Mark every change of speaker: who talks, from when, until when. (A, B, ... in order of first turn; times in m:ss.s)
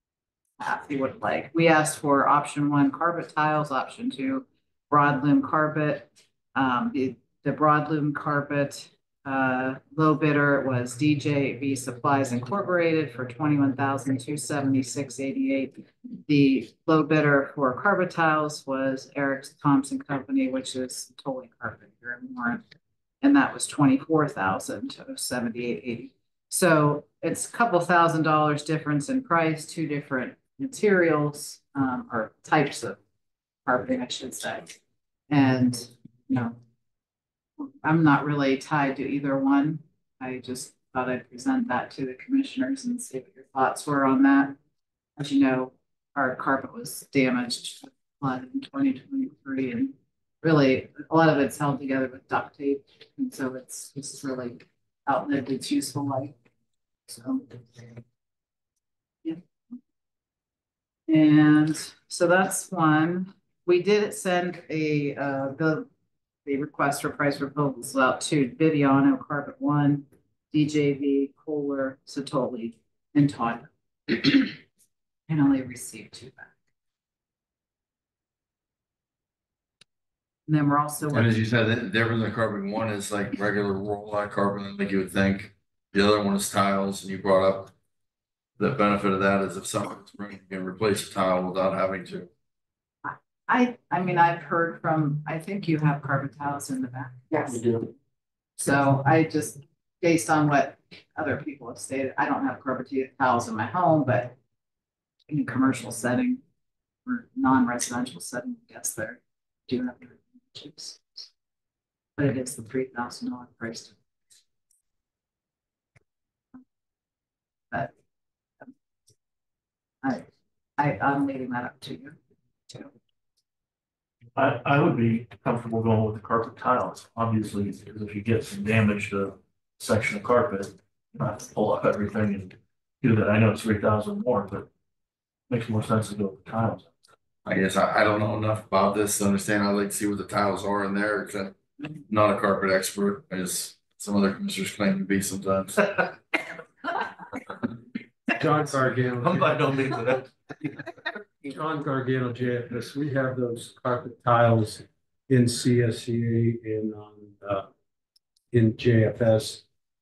0:00.6-0:22.6 A
0:23.2-0:33.0 A
0:33.7-0:34.8 A
0:35.3-0:36.6 A
0:37.6-0:44.6 A
0:45.2-0:56.4 A
0:57.1-0:57.9 A
1:01.1-1:05.9 A
1:06.4-1:14.6 A
1:15.3-1:16.5 A
1:20.5-1:21.3 A
1:21.1-1:27.7 B
1:28.6-1:32.3 B
1:33.0-1:37.6 A
1:37.5-1:37.9 C
1:38.6-1:44.3 A
1:45.3-1:46.4 A
1:47.1-1:51.3 A
1:52.2-1:54.0 A
2:00.0-2:02.2 A
2:04.4-2:14.7 C
2:15.5-2:16.9 C
2:17.4-2:21.6 B
2:22.1-2:26.0 B
2:28.4-2:29.8 D
2:28.4-2:30.3 C
2:31.4-2:37.7 D
2:38.5-2:39.6 D